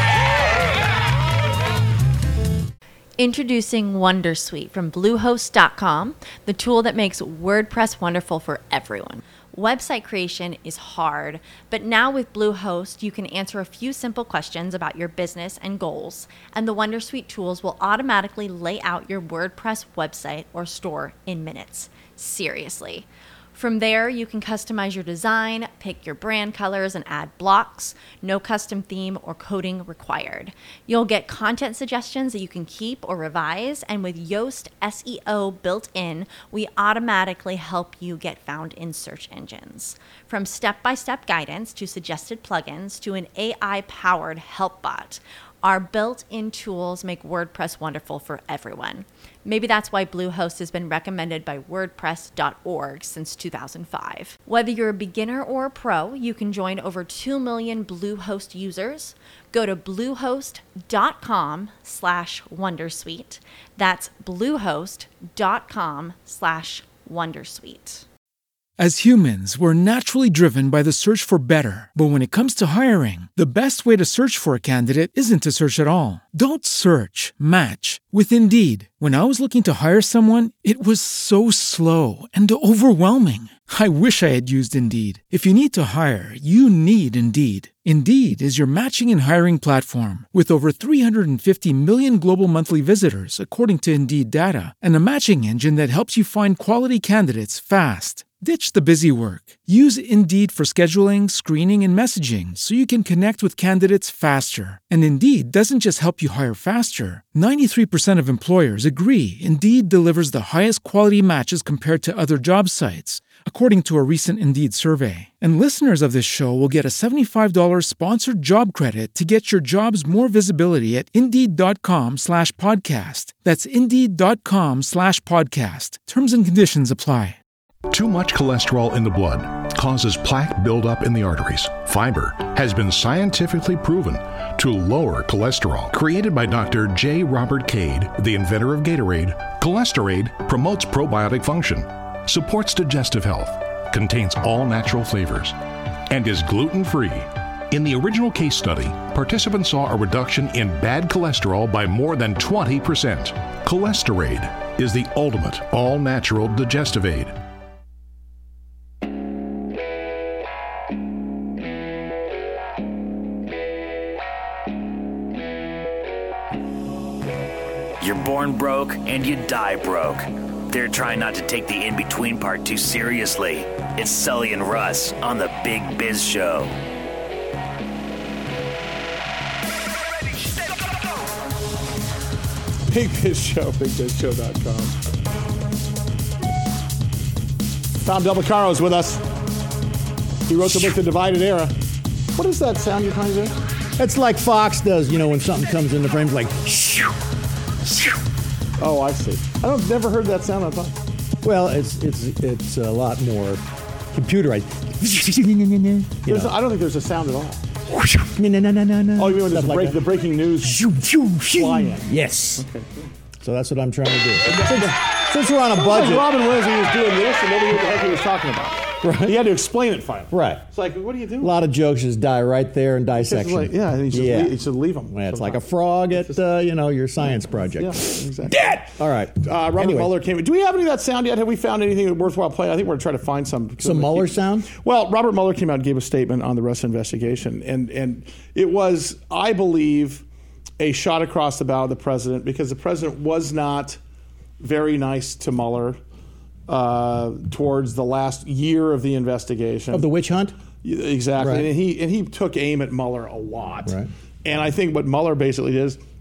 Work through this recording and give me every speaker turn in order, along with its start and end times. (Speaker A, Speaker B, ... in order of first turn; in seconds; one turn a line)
Speaker A: 3.2-68.0
Speaker B: 68.8-127.4
Speaker C: 127.9-157.3
Speaker D: 168.0-176.8
Speaker E: 182.9-184.9
Speaker E: 188.0-189.2
Speaker E: 190.5-191.7
Speaker E: 192.3-193.6
Speaker F: 194.0-197.2
Speaker E: 198.8-201.0
Speaker F: 201.4-206.5
Speaker E: 206.3-207.6
Speaker F: 207.9-210.0
Speaker E: 209.2-210.8
Speaker F: 210.6-212.7
Speaker E: 211.5-212.9
Speaker F: 213.4-216.3
Speaker E: 214.5-214.9
Speaker E: 215.7-221.5
Speaker F: 219.0-219.4
Speaker F: 220.3-220.7
Speaker F: 221.4-224.6
Speaker E: 223.2-225.6
Speaker F: 225.1-230.1
Speaker E: 227.8-228.8
Speaker E: 229.4-240.2
Speaker F: 233.8-234.7
Speaker E: 240.8-244.0
Speaker E: 244.6-246.0
Speaker E: 246.7-250.0
Speaker F: 249.9-250.5
Speaker E: 250.8-256.0
Speaker F: 251.4-251.7